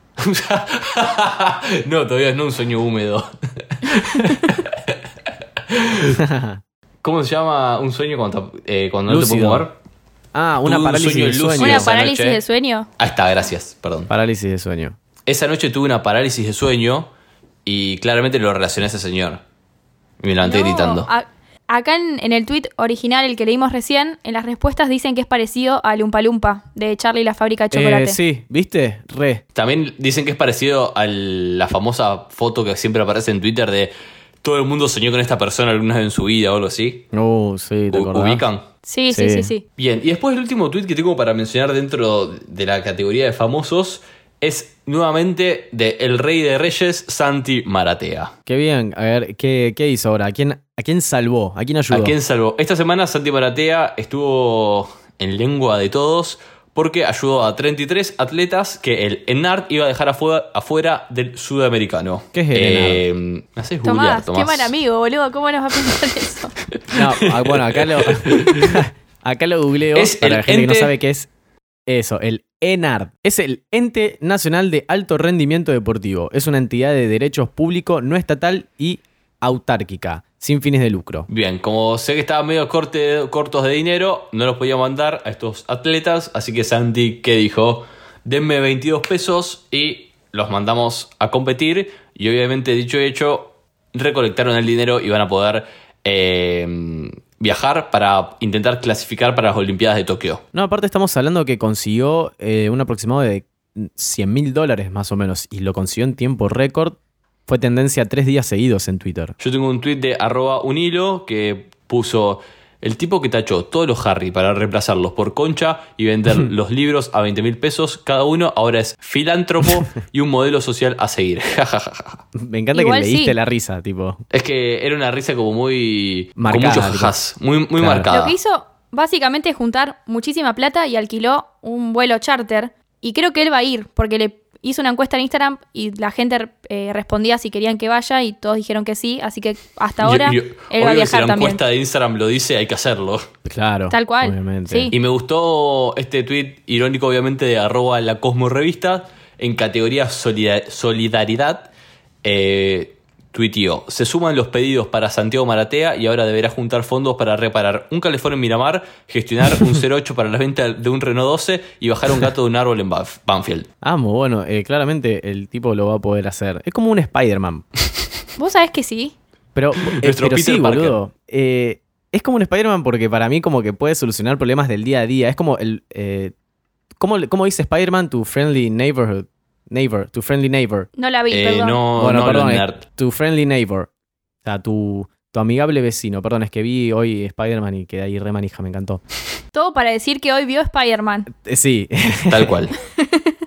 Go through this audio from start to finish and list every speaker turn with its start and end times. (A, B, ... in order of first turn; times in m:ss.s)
0:00.2-0:04.9 A
0:05.7-0:06.2 A
0:06.1-0:06.6 B
0:07.0-0:09.8 A
0:09.1-0:09.7 B
0:10.3-0:11.9 B
0:10.6-0:12.4 A
0:11.6-0:12.9 C
0:13.0-0:14.1 A
0:14.1-0:15.0 B
0:15.2-0:17.1 A
0:17.6-0:19.4 A
0:20.2-0:21.1 A
0:20.4-0:28.2 C
0:27.7-0:29.4 B
0:29.5-0:37.1 A
0:37.1-0:38.4 B
0:37.9-0:38.6 A
0:38.8-0:39.6 C
0:39.1-0:39.5 B
0:39.8-0:48.3 A
0:48.5-0:52.1 B
0:51.9-1:04.7 A
1:02.3-1:03.0 B
1:03.8-1:06.5 C
1:06.9-1:08.8 A
1:06.9-1:11.3 B
1:09.9-1:10.9 A
1:11.9-1:21.3 B
1:21.3-1:40.4 A
1:40.5-1:49.4 B
1:49.4-2:02.2 A
2:02.3-2:04.2 B
2:02.7-2:03.4 C
2:04.3-2:08.3 A
2:06.4-2:07.1 B
2:07.8-2:08.1 B
2:08.1-2:21.6 C
2:20.0-2:23.3 A
2:23.4-2:24.9 B
2:23.9-2:24.9 C
2:24.9-2:31.7 A
2:32.2-2:43.7 A
2:43.8-2:47.6 B
2:48.4-2:49.1 C
2:49.5-2:56.3 B
2:49.8-2:51.0 A
2:57.0-3:00.9 B
3:01.0-3:01.8 C
3:01.3-3:02.8 A
3:02.0-3:03.9 B
3:04.4-3:09.0 B
3:09.5-3:11.3 C
3:11.3-3:12.7 B
3:12.3-3:12.7 A
3:13.0-3:13.3 C